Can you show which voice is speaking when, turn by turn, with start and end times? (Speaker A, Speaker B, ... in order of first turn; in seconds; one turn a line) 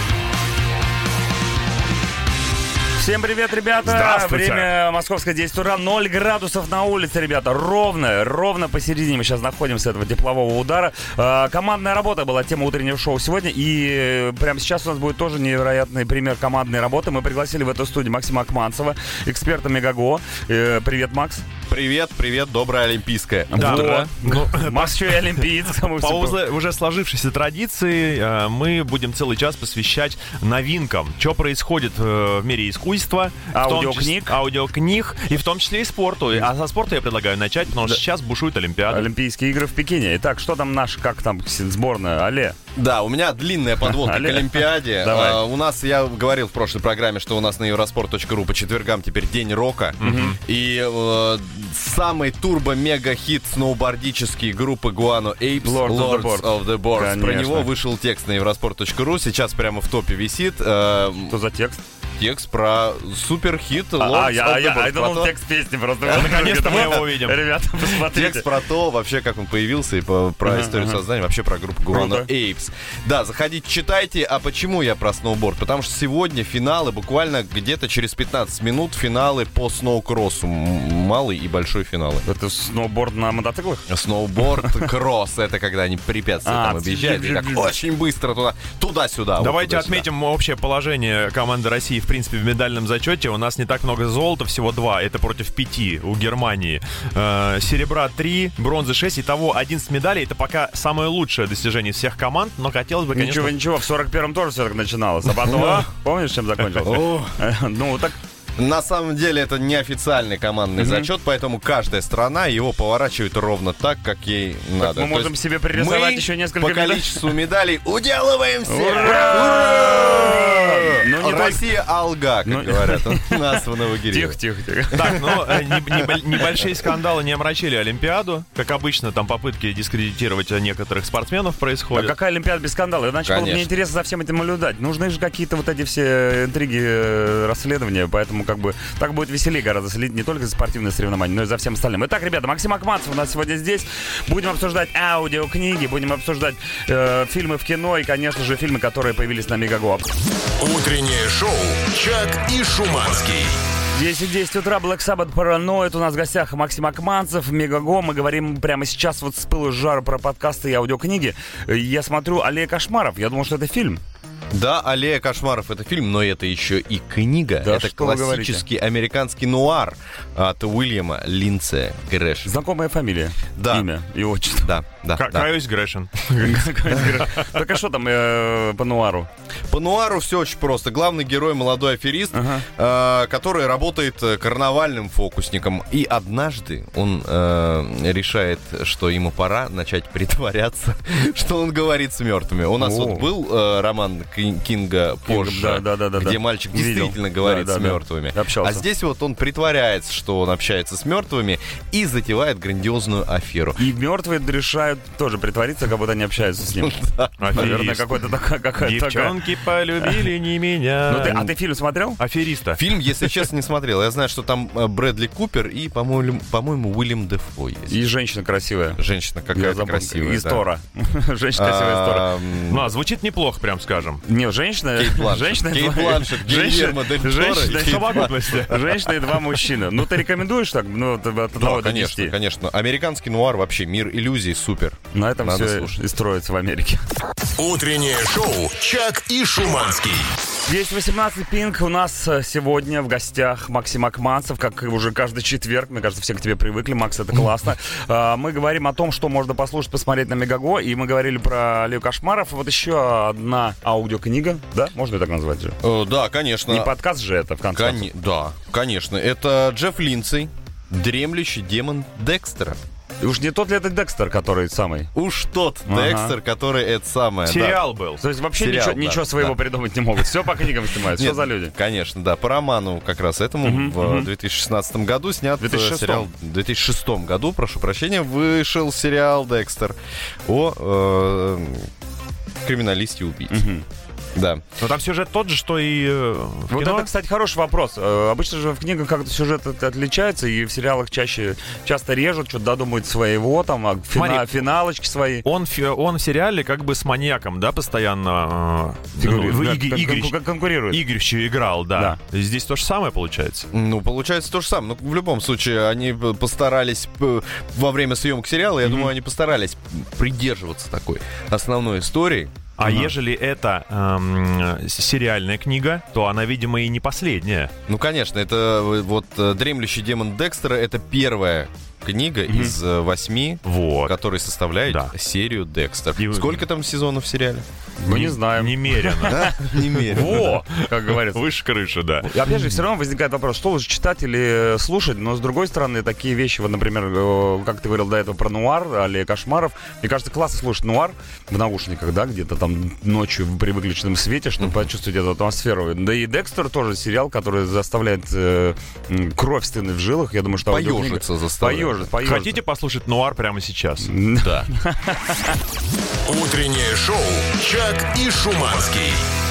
Speaker A: 3.0-21.4
Speaker B: 3.8-4.7
Speaker C: 21.7-24.0
Speaker A: 23.5-26.4
Speaker B: 23.5-39.1
Speaker A: 33.5-34.4
Speaker A: 38.9-42.6
Speaker C: 42.8-61.4
Speaker A: 43.8-45.4
Speaker A: 50.0-50.4
Speaker B: 50.0-50.4
Speaker A: 55.6-57.7
Speaker A: 61.3-61.8
Speaker C: 62.2-65.3
Speaker A: 64.0-68.5
Speaker B: 66.0-67.4
Speaker C: 67.9-82.2
Speaker A: 70.4-71.0
Speaker A: 71.9-72.3
Speaker A: 82.2-83.9
Speaker C: 83.9-90.1
Speaker A: 86.4-87.8
Speaker B: 89.4-103.5
Speaker A: 103.1-108.2
Speaker C: 106.8-107.4
Speaker C: 108.6-124.4
Speaker A: 110.8-111.1
Speaker A: 114.8-117.4
Speaker A: 118.7-121.7
Speaker A: 122.5-125.6
Speaker B: 124.9-132.1
Speaker C: 125.0-126.0
Speaker A: 131.9-150.1
Speaker C: 133.2-133.7
Speaker D: 150.6-153.6
Speaker A: 153.9-164.0
Speaker C: 164.5-172.5
Speaker A: 167.6-168.6
Speaker A: 172.4-174.7
Speaker C: 173.6-173.9
Speaker C: 174.6-175.5
Speaker B: 175.2-177.5
Speaker A: 176.4-179.3
Speaker C: 179.7-203.8
Speaker A: 182.3-182.7
Speaker A: 192.8-193.3
Speaker A: 195.3-198.8
Speaker A: 203.8-209.4
Speaker C: 206.7-207.8
Speaker B: 207.4-211.6
Speaker A: 211.1-212.2
Speaker B: 212.2-213.4
Speaker C: 212.7-218.0
Speaker A: 217.9-219.0
Speaker C: 219.0-220.7
Speaker A: 219.5-222.3
Speaker C: 221.6-222.9
Speaker B: 222.7-224.2
Speaker A: 224.2-232.3
Speaker C: 225.0-228.7
Speaker B: 227.7-229.3
Speaker C: 231.6-235.9
Speaker A: 235.1-237.1
Speaker D: 237.6-240.3
Speaker A: 240.6-255.8
Speaker C: 255.8-256.9
Speaker A: 256.7-258.1
Speaker C: 257.7-262.8
Speaker A: 263.2-265.1
Speaker C: 265.1-267.8
Speaker A: 265.9-266.4
Speaker B: 267.4-268.2
Speaker A: 268.2-271.7
Speaker C: 268.6-269.6
Speaker C: 271.1-281.9
Speaker A: 273.6-274.3
Speaker A: 275.6-276.3
Speaker C: 282.6-283.6
Speaker A: 283.5-283.8
Speaker C: 284.4-284.6
Speaker B: 284.8-287.1
Speaker A: 286.7-295.4
Speaker B: 294.1-294.6
Speaker B: 295.4-303.7
Speaker A: 299.2-301.0
Speaker C: 303.7-312.5
Speaker B: 312.8-317.7
Speaker A: 312.8-313.1
Speaker C: 317.9-327.6
Speaker A: 322.5-322.8
Speaker B: 323.6-324.2
Speaker B: 324.9-325.1
Speaker B: 326.2-326.6
Speaker A: 328.0-331.4
Speaker B: 328.1-332.7
Speaker C: 329.3-330.5
Speaker A: 332.3-352.6
Speaker C: 344.6-344.9
Speaker C: 350.7-352.1
Speaker B: 352.2-354.1
Speaker A: 354.0-355.6
Speaker C: 354.4-354.7
Speaker D: 356.2-359.3